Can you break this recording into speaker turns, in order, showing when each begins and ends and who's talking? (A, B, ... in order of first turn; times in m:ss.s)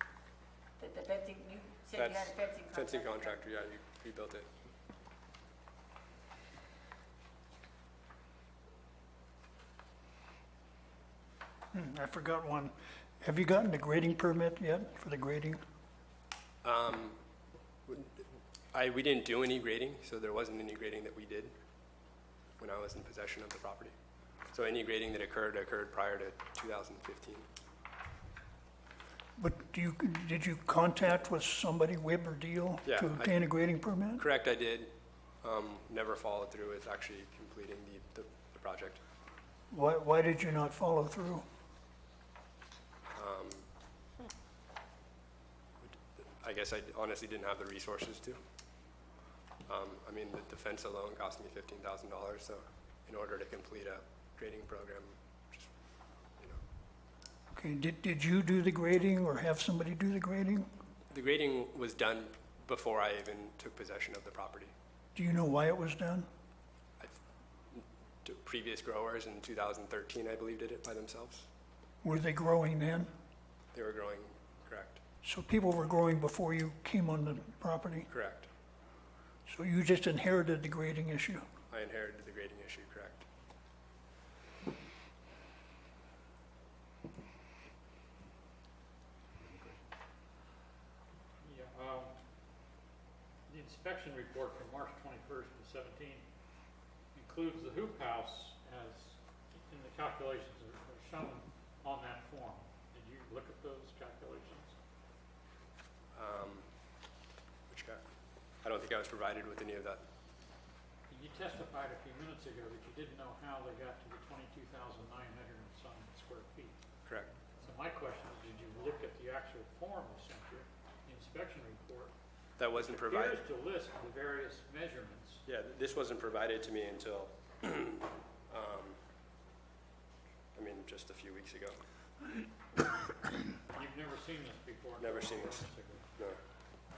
0:00.8-0:03.4 A
0:02.0-0:04.5 B
0:11.7-0:15.6 C
0:16.6-0:17.2 B
0:17.9-0:18.2 B
0:18.7-0:21.5 B
0:22.6-0:23.9 B
0:24.5-0:27.4 B
0:29.4-0:34.2 C
0:32.8-0:33.4 B
0:34.2-0:34.9 B
0:35.4-0:39.0 B
0:39.7-0:41.4 C
0:43.1-0:43.7 B
0:45.8-0:48.4 B
0:49.7-0:55.7 B
0:57.5-1:00.7 C
1:01.1-1:04.7 B
1:05.1-1:06.3 C
1:07.7-1:11.5 B
1:12.0-1:13.1 C
1:13.7-1:15.0 B
1:15.2-1:18.1 C
1:18.1-1:18.5 B
1:19.5-1:21.4 C
1:21.7-1:23.2 B
1:31.4-1:32.1 D
1:33.5-1:36.2 D
1:37.1-1:44.8 D
1:46.1-1:46.6 B
1:47.7-1:48.0 B
1:48.6-1:50.0 B
1:51.1-1:56.8 D
1:57.6-2:02.1 D
2:02.6-2:03.4 B
2:02.8-2:05.4 D
2:05.4-2:09.0 B
2:10.6-2:11.8 B
2:13.7-2:16.0 D
2:15.0-2:16.4 B